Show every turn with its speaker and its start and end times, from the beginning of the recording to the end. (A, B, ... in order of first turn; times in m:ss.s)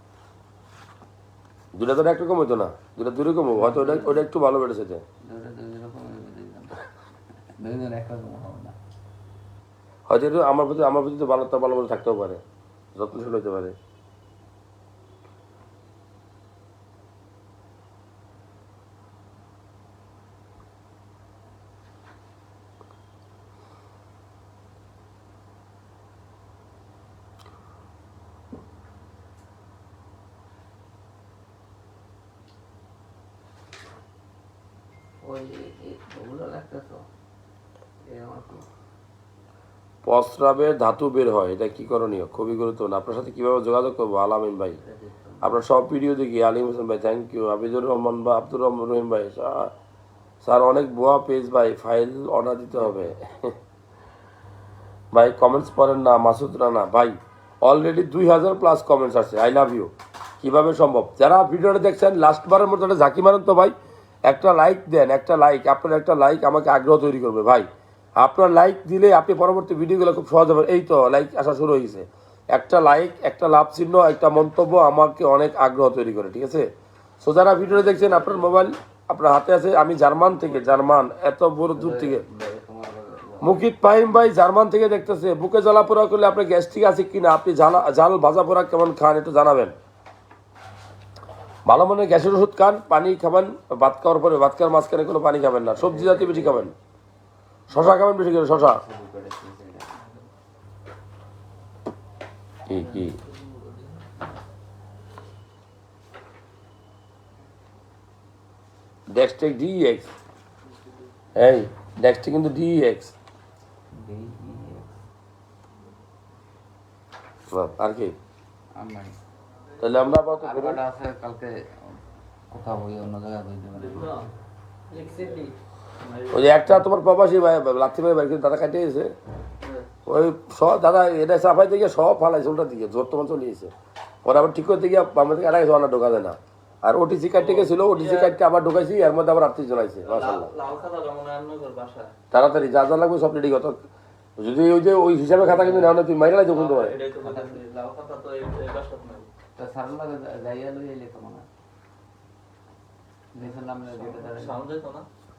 0:01.8-0:05.0 A
0:03.5-0:04.3 B
0:05.2-0:06.8 B
0:07.6-0:08.8 B
0:10.1-0:12.4 A
0:13.0-0:13.8 A
0:35.2-0:37.1 B
0:38.1-0:38.7 B
0:40.0-0:44.8 A
0:44.8-0:45.5 B
0:45.4-0:49.7 A
0:50.4-0:53.6 A
0:52.9-0:53.1 B
0:55.1-1:03.7 A
1:04.3-1:16.7 A
1:17.2-1:22.2 A
1:17.7-1:18.3 B
1:21.7-1:24.2 B
1:23.4-1:29.7 A
1:31.7-1:36.7 A
1:35.7-1:36.7 B
1:37.7-1:38.8 A
1:38.4-1:39.9 B
1:39.9-1:40.3 C
1:42.7-1:43.2 A
1:42.7-1:44.1 C
1:49.1-1:50.1 A
1:50.6-1:51.1 C
1:51.4-1:53.1 A
1:53.9-1:55.0 B
1:57.5-1:58.2 A
1:58.8-1:59.2 B
1:59.8-2:00.8 A
2:00.4-2:02.0 B
2:02.5-2:04.3 B
2:03.8-2:04.3 C
2:04.9-2:06.8 C
2:04.9-2:05.5 B
2:06.3-2:09.1 A
2:09.6-2:09.9 C
2:10.1-2:13.7 A
2:14.2-2:20.5 A
2:17.4-2:18.3 C
2:20.1-2:22.1 C
2:22.3-2:23.8 A
2:24.4-2:27.0 A
2:25.4-2:25.9 B
2:26.5-2:29.3 C
2:27.2-2:27.6 B
2:29.6-2:31.5 B
2:33.3-2:34.6 B
2:33.9-2:35.1 C